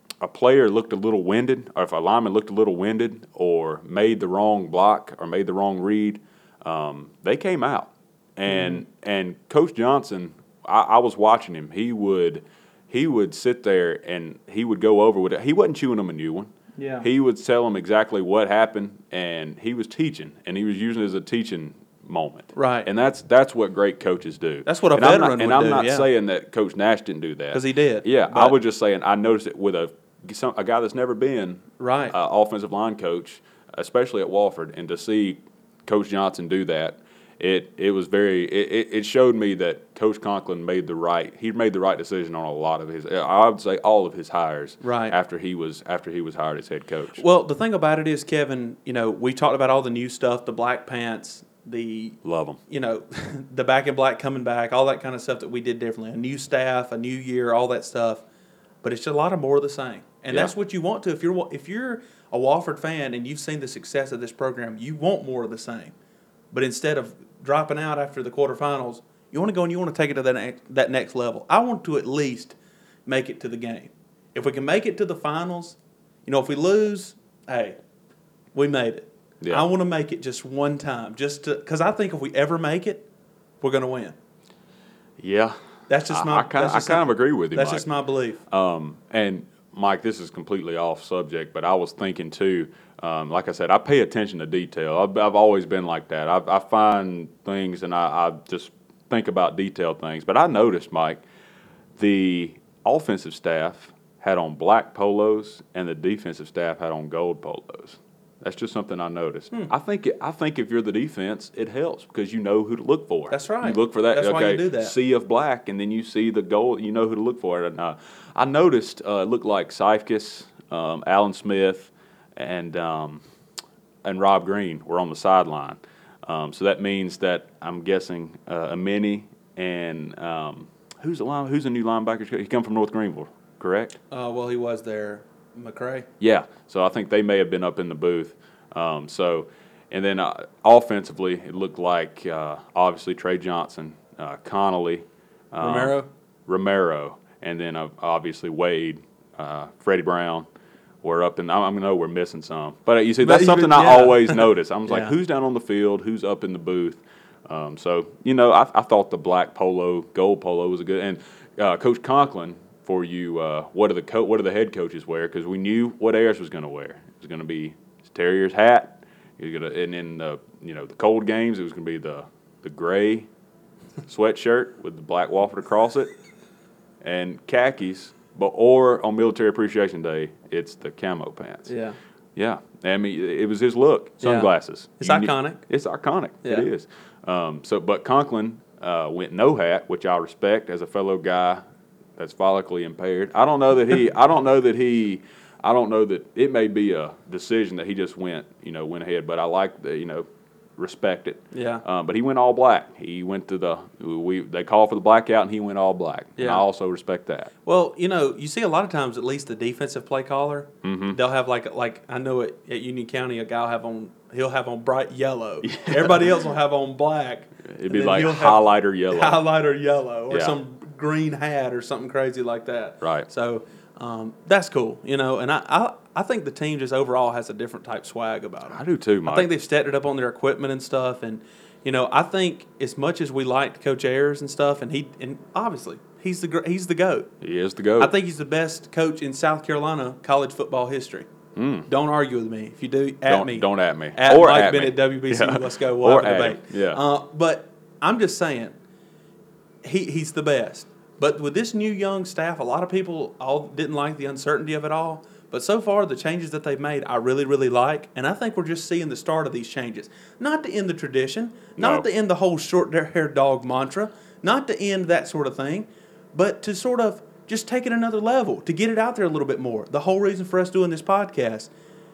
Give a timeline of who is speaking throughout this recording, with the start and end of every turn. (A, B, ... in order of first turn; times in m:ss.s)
0:00.2-0:16.5 A
0:08.5-0:08.8 B
0:16.8-0:17.1 B
0:17.0-0:47.2 A
0:22.5-0:22.9 B
0:24.6-0:26.1 B
0:27.5-0:28.6 B
0:31.8-0:32.1 B
0:44.8-0:45.2 B
0:47.2-0:52.2 B
0:52.2-0:52.6 A
0:52.7-0:58.2 B
0:58.8-1:05.9 B
1:06.5-1:17.8 B
1:18.5-1:23.0 B
1:19.4-1:19.7 A
1:23.6-1:24.1 B
1:25.2-1:25.5 A
1:25.9-1:28.4 B
1:26.1-1:27.8 A
1:28.5-1:41.2 A
1:42.0-2:03.2 A
1:53.3-1:54.9 B
2:04.0-2:14.0 A
2:14.1-2:16.1 B
2:16.2-2:30.5 A
2:25.6-2:26.1 B
2:31.0-2:53.3 A
2:33.2-2:35.1 B
2:54.1-2:56.1 A
2:57.0-3:01.7 A
3:01.7-3:02.0 B
3:02.3-3:11.6 A
3:04.2-3:05.6 B
3:12.2-3:27.5 A
3:21.5-3:21.8 B
3:26.4-3:26.6 B
3:27.6-3:57.3 B
3:30.8-3:31.2 A
3:35.6-3:36.3 A
3:37.6-3:39.4 A
3:40.3-3:40.6 A
3:43.0-3:43.3 A
3:48.7-3:49.5 A
3:57.4-3:58.1 A
3:58.0-4:01.3 B
4:01.5-4:01.9 A
4:01.9-4:08.7 B
4:03.2-4:07.0 A
4:09.8-4:31.7 B
4:21.8-4:22.0 A